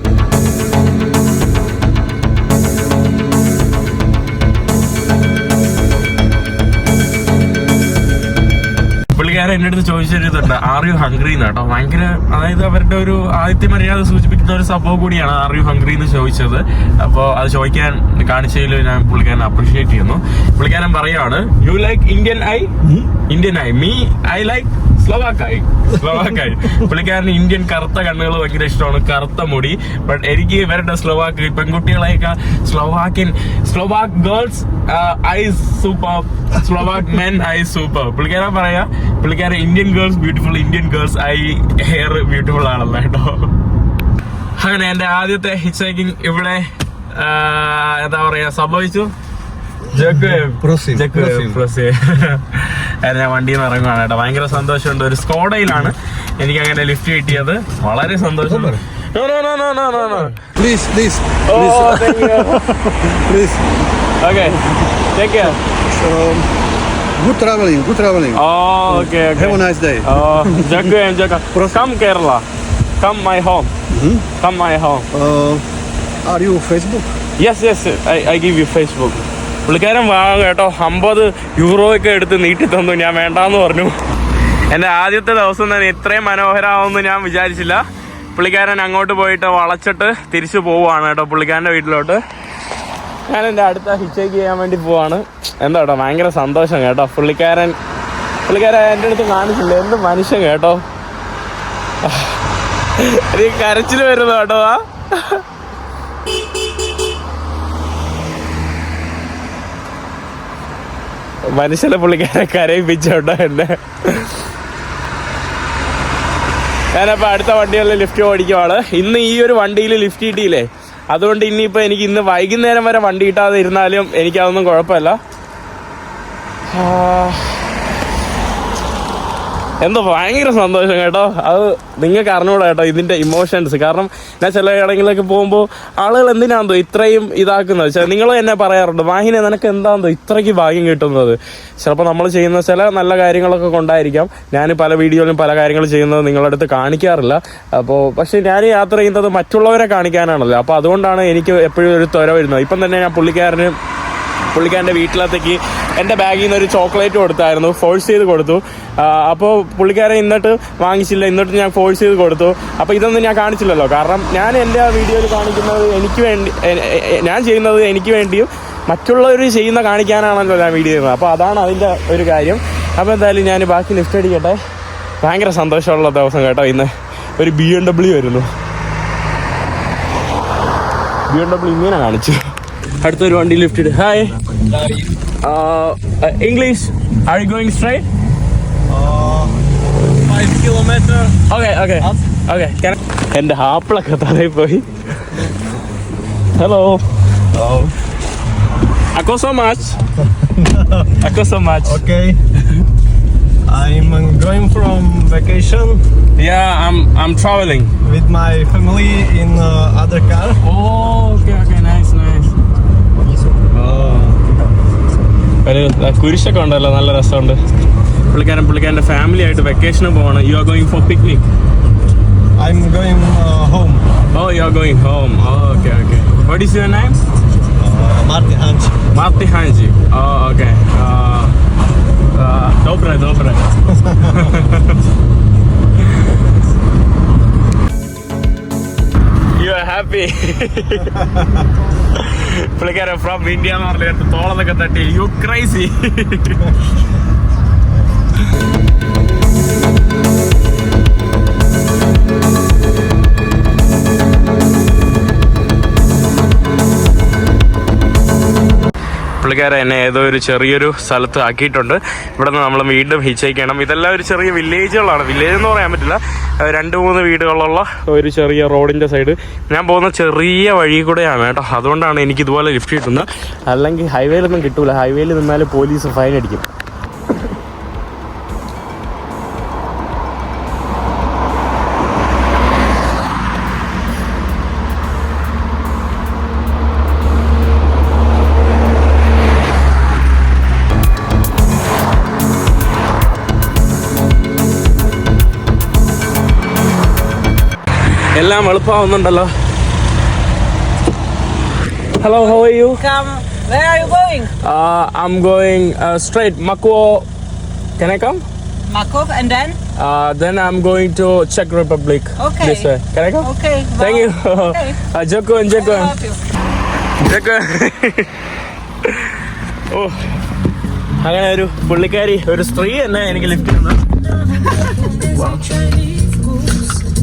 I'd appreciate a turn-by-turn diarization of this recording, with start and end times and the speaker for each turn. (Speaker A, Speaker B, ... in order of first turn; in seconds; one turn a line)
Speaker A: 9.1-22.7
Speaker B: 22.8-23.1
Speaker A: 23.3-43.5
Speaker A: 44.6-49.1
Speaker B: 49.9-51.6
Speaker A: 49.9-60.4
Speaker B: 58.5-58.8
Speaker B: 60.4-63.8
Speaker A: 61.5-63.1
Speaker A: 64.2-65.6
Speaker B: 64.5-66.5
Speaker B: 67.2-71.0
Speaker A: 68.3-72.4
Speaker B: 71.5-71.8
Speaker A: 73.0-73.7
Speaker B: 73.9-74.3
Speaker A: 74.4-75.0
Speaker B: 75.1-75.6
Speaker B: 76.2-77.1
Speaker A: 77.4-83.9
Speaker A: 84.7-87.8
Speaker A: 88.3-92.2
Speaker A: 93.3-97.8
Speaker A: 98.5-100.8
Speaker A: 102.0-102.4
Speaker A: 103.0-105.4
Speaker A: 111.5-114.4
Speaker A: 117.0-125.2
Speaker A: 126.7-127.6
Speaker A: 129.8-153.8
Speaker A: 154.5-174.6
Speaker A: 175.2-178.5
Speaker A: 181.3-182.5
Speaker A: 183.0-184.4
Speaker B: 184.6-185.2
Speaker A: 185.4-188.1
Speaker B: 188.9-191.4
Speaker A: 191.5-194.9
Speaker A: 196.6-197.0
Speaker B: 197.5-198.0
Speaker A: 199.1-200.0
Speaker B: 200.3-201.2
Speaker A: 201.2-202.0
Speaker B: 201.8-202.8
Speaker B: 203.7-206.0
Speaker A: 206.4-207.9
Speaker B: 208.0-210.6
Speaker A: 210.6-212.5
Speaker B: 213.2-214.7
Speaker A: 213.8-214.3
Speaker A: 215.7-217.6
Speaker A: 218.3-221.4
Speaker B: 222.6-224.0
Speaker A: 224.3-227.2
Speaker B: 227.8-229.1
Speaker A: 229.1-231.6
Speaker A: 232.3-233.6
Speaker B: 233.9-234.5
Speaker A: 234.2-235.0
Speaker A: 239.6-241.2
Speaker A: 242.1-246.8
Speaker A: 259.4-276.6
Speaker A: 298.4-299.5
Speaker A: 302.2-303.0
Speaker C: 302.2-304.5
Speaker A: 304.6-307.2
Speaker A: 308.0-308.4
Speaker C: 308.9-309.8
Speaker A: 310.0-313.5
Speaker C: 312.4-315.0
Speaker A: 314.0-316.1
Speaker C: 315.7-316.4
Speaker A: 317.2-318.3
Speaker A: 319.0-319.4
Speaker A: 319.9-320.3
Speaker A: 321.2-324.1
Speaker C: 324.7-326.9